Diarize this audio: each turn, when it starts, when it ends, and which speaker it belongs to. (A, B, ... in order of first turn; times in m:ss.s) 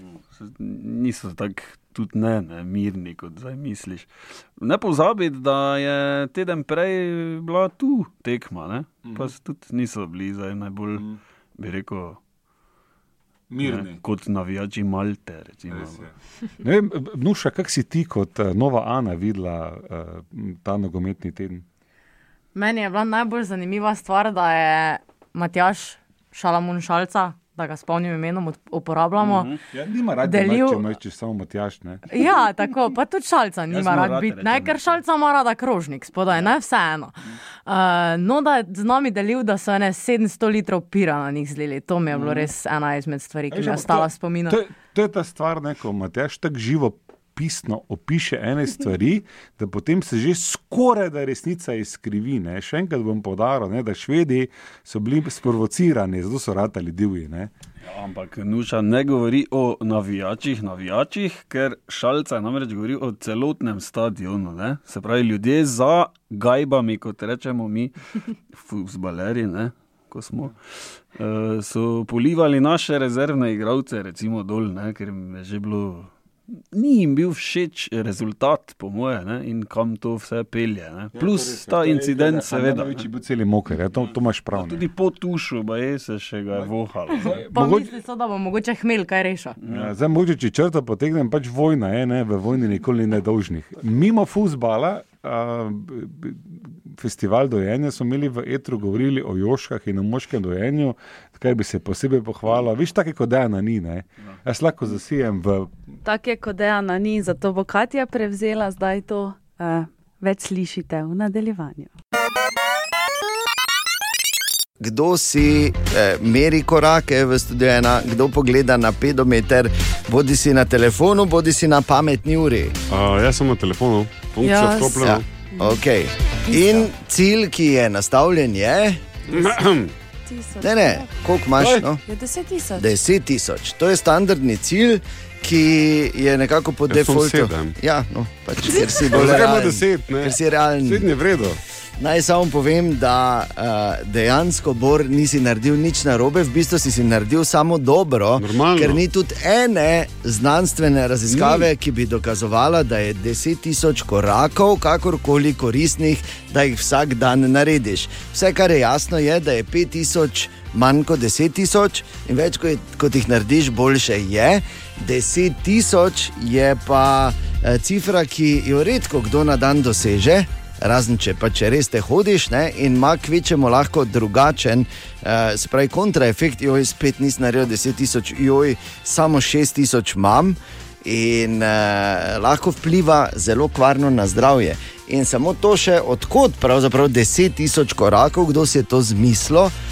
0:00.3-0:12.2 A
0:13.5-0:14.0 B
0:13.6-0:16.1 A
0:15.7-0:16.1 B
0:16.6-0:21.6 B
0:22.5-0:29.6 C
0:29.2-0:29.6 A
0:29.7-0:32.0 B
0:30.2-0:30.9 C
0:32.1-0:37.1 C
0:33.7-0:35.0 A
0:37.7-0:44.6 C
0:42.2-0:42.5 B
0:43.5-0:57.5 B
0:57.8-1:08.0 A
1:08.5-1:10.6 A
1:11.1-1:16.1 A
1:16.7-1:23.1 A
1:21.2-1:24.9 B
1:24.5-1:27.4 A
1:26.5-1:28.0 B
1:27.2-1:29.6 C
1:29.6-1:29.9 A
1:29.7-1:45.7 B
1:46.0-1:51.9 D
1:54.8-2:02.7 E
2:02.9-2:05.2 F
2:04.4-2:05.8 D
2:05.0-2:09.2 E
2:06.5-2:06.8 D
2:09.3-2:09.9 F
2:10.3-2:11.1 D
2:10.6-2:12.0 E
2:12.0-2:12.9 D
2:12.8-2:21.1 E
2:16.9-2:17.8 F
2:19.0-2:21.6 F
2:22.0-3:09.7 E
2:28.4-2:29.0 F
2:31.4-2:31.6 F